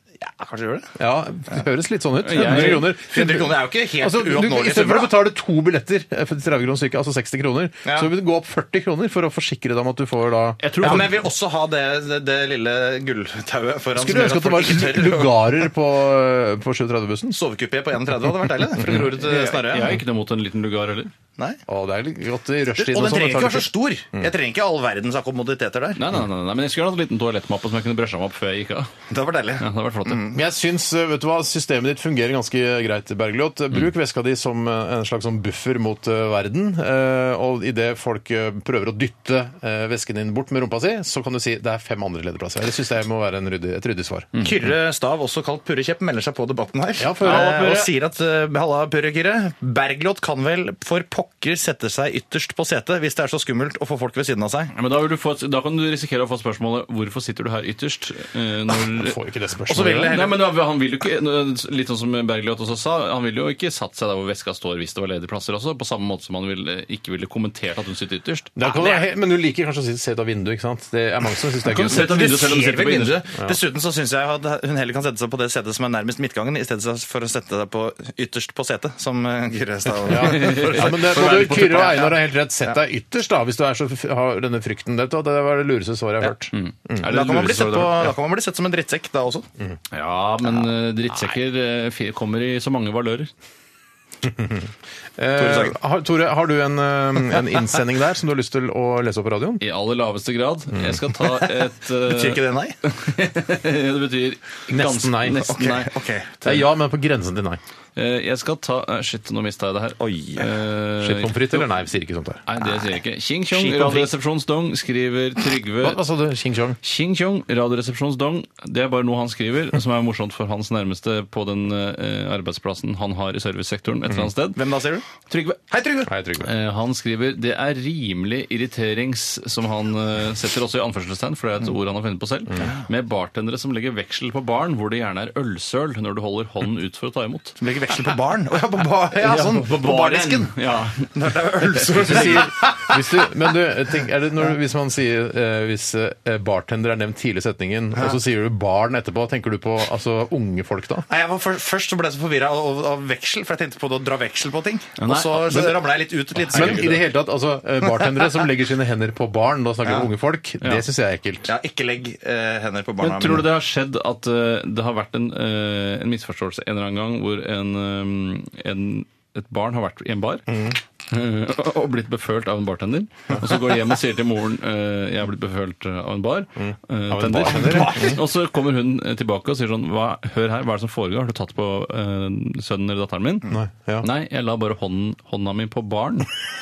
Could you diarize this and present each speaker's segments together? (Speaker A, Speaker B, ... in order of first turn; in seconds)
Speaker A: 0.2-0.9, 2.4-5.1, 7.8-8.1, 10.8-15.6, 17.3-20.0, 22.8-26.0, 29.1-30.4, 44.4-54.7, 59.7-60.5, 68.6-69.0, 71.7-82.8, 87.0-89.5, 95.4-95.8, 101.3-102.8, 105.4-106.5, 110.0-110.5, 113.6-114.1, 124.5-125.1, 125.7-126.1, 137.6-143.3, 151.1-157.1, 159.8-160.1, 161.5-163.5, 177.5-178.2
Speaker B: 1.0-11.1, 13.9-17.4, 18.8-19.1, 21.7-24.3, 30.3-44.3, 47.0-47.9, 59.0-60.2, 68.6-72.3, 80.1-87.1, 94.2-99.6, 104.7-105.7, 106.4-107.6, 111.0-112.5, 115.8-116.8, 126.1-126.5, 141.9-151.1, 156.5-161.5, 170.5-170.8, 176.6-178.2, 183.5-184.1
Speaker C: 2.2-2.9, 10.6-11.2, 18.8-21.1, 26.0-28.9, 29.6-30.2, 47.2-47.8, 54.7-59.2, 60.1-68.5, 71.7-73.2, 80.1-82.0, 86.5-88.1, 89.9-93.3, 99.6-105.9, 108.0-111.7, 112.5-116.0, 116.8-124.6, 125.2-125.6, 126.4-137.6, 139.2-141.1, 141.8-142.4, 155.0-155.7, 156.5-156.9, 163.0-186.3